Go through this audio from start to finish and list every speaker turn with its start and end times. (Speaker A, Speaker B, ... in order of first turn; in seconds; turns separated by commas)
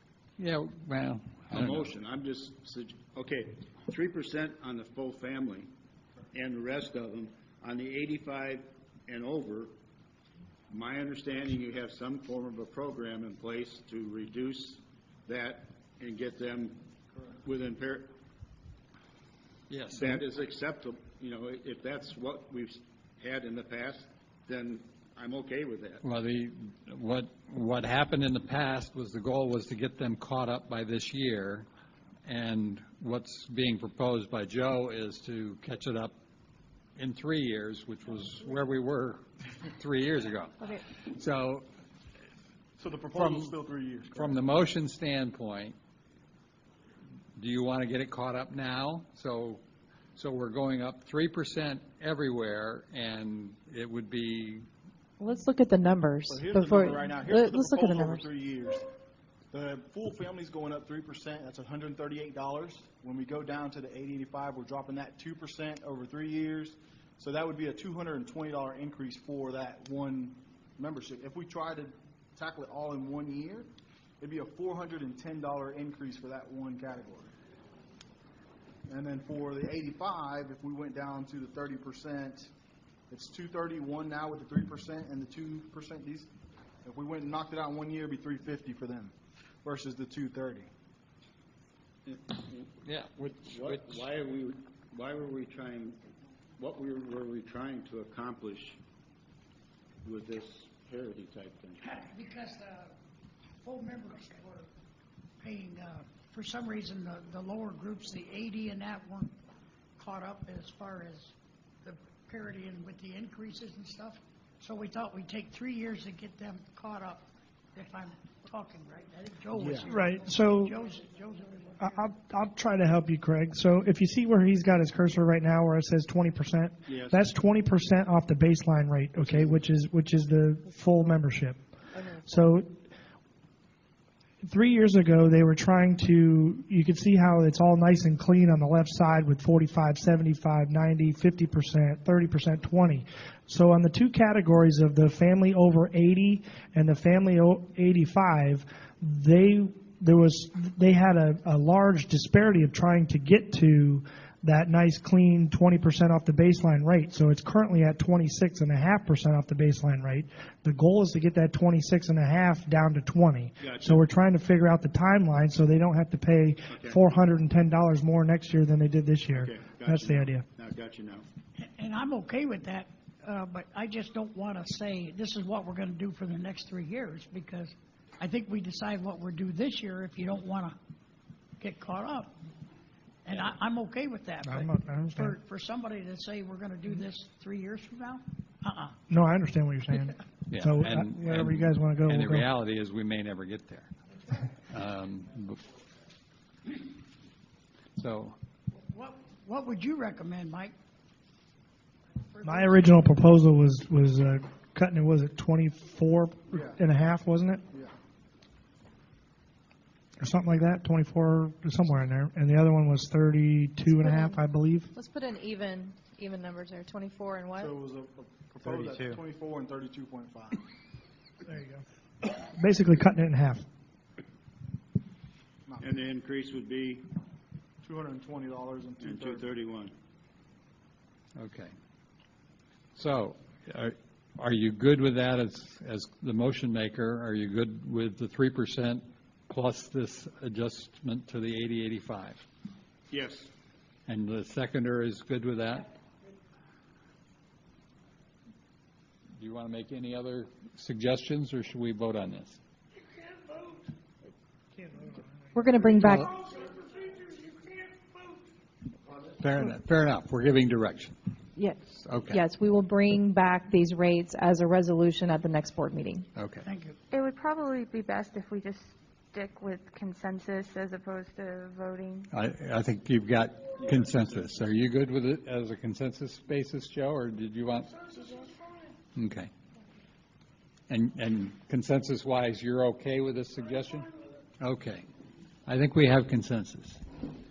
Speaker A: 0.4-1.9, Speaker B: 1.5-5.7, Speaker B: 6.3-9.7, Speaker B: 10.7-16.8, Speaker B: 17.4-18.1, Speaker A: 19.7-20.2, Speaker B: 19.9-26.0, Speaker A: 26.0-31.7, Speaker A: 32.2-36.1, Speaker A: 37.0-41.6, Speaker C: 42.8-44.5, Speaker A: 43.1-43.5, Speaker A: 44.1-45.8, Speaker A: 47.4-49.6, Speaker A: 50.1-54.6, Speaker D: 55.2-58.3, Speaker C: 56.3-58.9, Speaker C: 59.5-77.3, Speaker C: 78.9-82.5, Speaker C: 83.1-86.3, Speaker C: 86.8-90.7, Speaker B: 92.0-96.0, Speaker A: 92.8-94.0, Speaker B: 96.6-98.8, Speaker B: 100.0-101.8, Speaker E: 101.9-102.9, Speaker E: 103.6-104.7, Speaker E: 105.4-109.3, Speaker E: 110.0-122.0, Speaker C: 119.5-119.9, Speaker F: 119.9-120.8, Speaker F: 121.8-131.6, Speaker B: 126.9-127.1, Speaker D: 132.0-132.2, Speaker F: 132.2-132.7, Speaker F: 134.4-170.4, Speaker B: 163.6-164.1, Speaker B: 166.7-167.0, Speaker B: 169.3-171.2, Speaker E: 171.6-180.8, Speaker E: 181.6-182.3, Speaker E: 183.2-189.0, Speaker F: 184.4-185.4, Speaker F: 189.1-192.5, Speaker A: 190.5-193.9, Speaker A: 194.7-195.6, Speaker A: 198.0-198.3, Speaker E: 198.7-200.7, Speaker E: 202.2-203.1, Speaker F: 202.4-207.6, Speaker C: 206.5-206.8, Speaker F: 210.2-214.9, Speaker D: 214.0-214.4, Speaker D: 214.9-217.7, Speaker C: 217.6-220.6, Speaker A: 218.6-219.2, Speaker F: 221.4-221.8, Speaker F: 222.4-223.6, Speaker B: 225.8-227.1, Speaker C: 227.8-229.4, Speaker B: 229.0-229.9, Speaker A: 231.3-231.7, Speaker A: 232.9-242.4, Speaker B: 243.1-243.5, Speaker A: 244.1-245.9, Speaker A: 249.4-252.6, Speaker F: 254.8-255.3, Speaker D: 255.5-256.3, Speaker A: 259.4-261.2, Speaker D: 261.6-266.3, Speaker A: 262.0-262.4, Speaker A: 266.4-266.6, Speaker E: 266.6-267.0, Speaker G: 267.1-272.3, Speaker A: 272.3-278.3, Speaker A: 279.1-279.5, Speaker A: 280.9-284.1, Speaker A: 284.6-285.0, Speaker A: 285.6-287.0